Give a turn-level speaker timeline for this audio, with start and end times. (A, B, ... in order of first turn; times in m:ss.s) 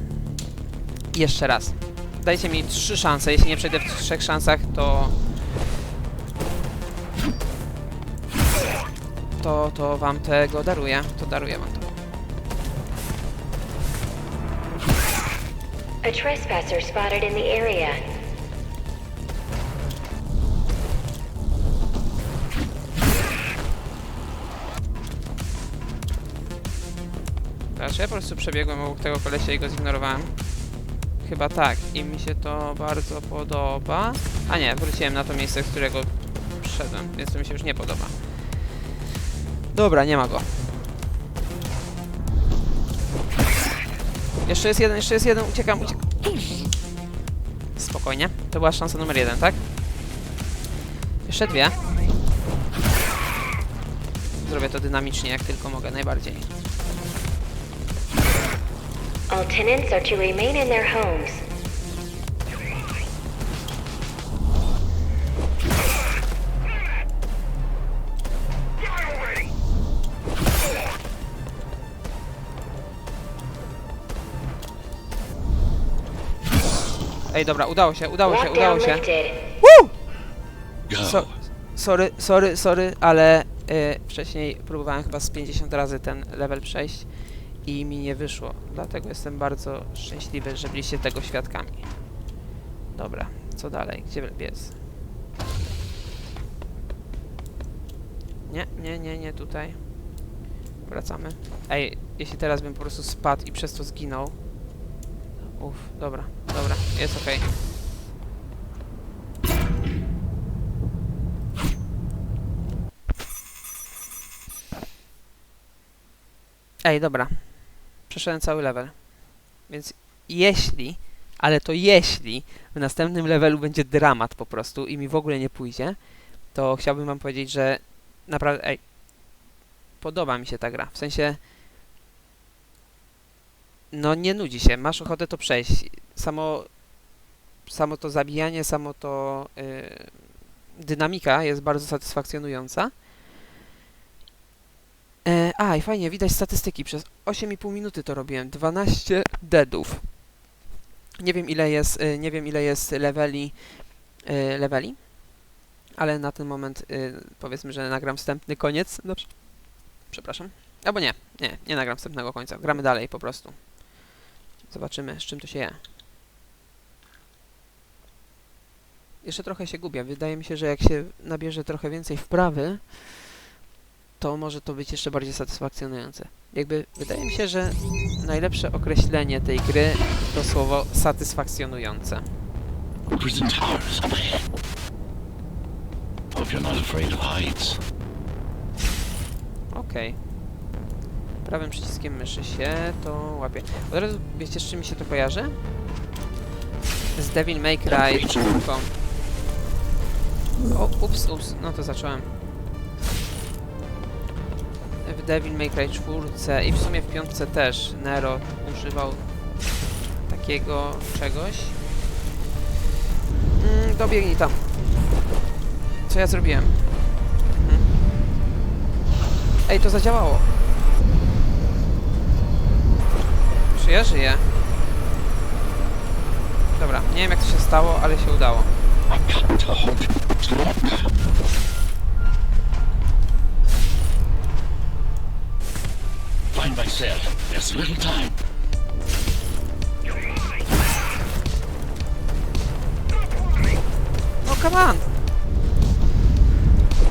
0:01.1-0:05.2 A
0:09.4-0:11.9 A
0:16.0-0:18.0 B
0:27.7-0:30.4 A
0:31.2-0:38.6 A
0:39.7-0:40.7 A
0:44.4-0:46.7 A
0:47.8-0:49.6 A
0:51.2-0:51.8 A
0:54.4-0:56.5 A
0:59.3-1:01.4 B
1:17.3-1:19.0 A
1:18.2-1:19.4 B
1:19.6-1:19.9 A
1:20.9-1:21.4 C
1:21.0-1:31.9 A
1:32.9-1:34.8 A
1:38.5-1:40.2 A
1:40.8-1:44.4 A
1:45.5-1:47.5 A
1:56.8-2:08.9 A
2:10.0-2:11.4 A
2:13.9-2:16.9 A
2:17.6-2:23.0 A
2:25.2-2:30.2 A
2:31.2-2:35.4 A
2:36.0-2:44.0 A
2:44.6-2:45.8 A
2:49.2-2:53.4 A
2:54.2-3:02.3 A
3:03.0-3:04.5 C
3:06.3-3:07.8 C
3:09.7-3:10.2 A
3:11.4-3:15.6 A
3:17.1-3:18.9 A
3:17.9-3:18.4 C
3:20.7-3:22.3 A
3:25.0-3:29.3 A
3:30.2-3:31.8 A
3:33.6-3:34.6 A
3:36.1-3:37.9 A
3:39.6-3:40.5 A
3:43.7-3:44.5 A
3:46.7-3:48.7 A
3:49.1-3:51.1 C
3:56.5-3:58.4 C
4:04.4-4:05.0 A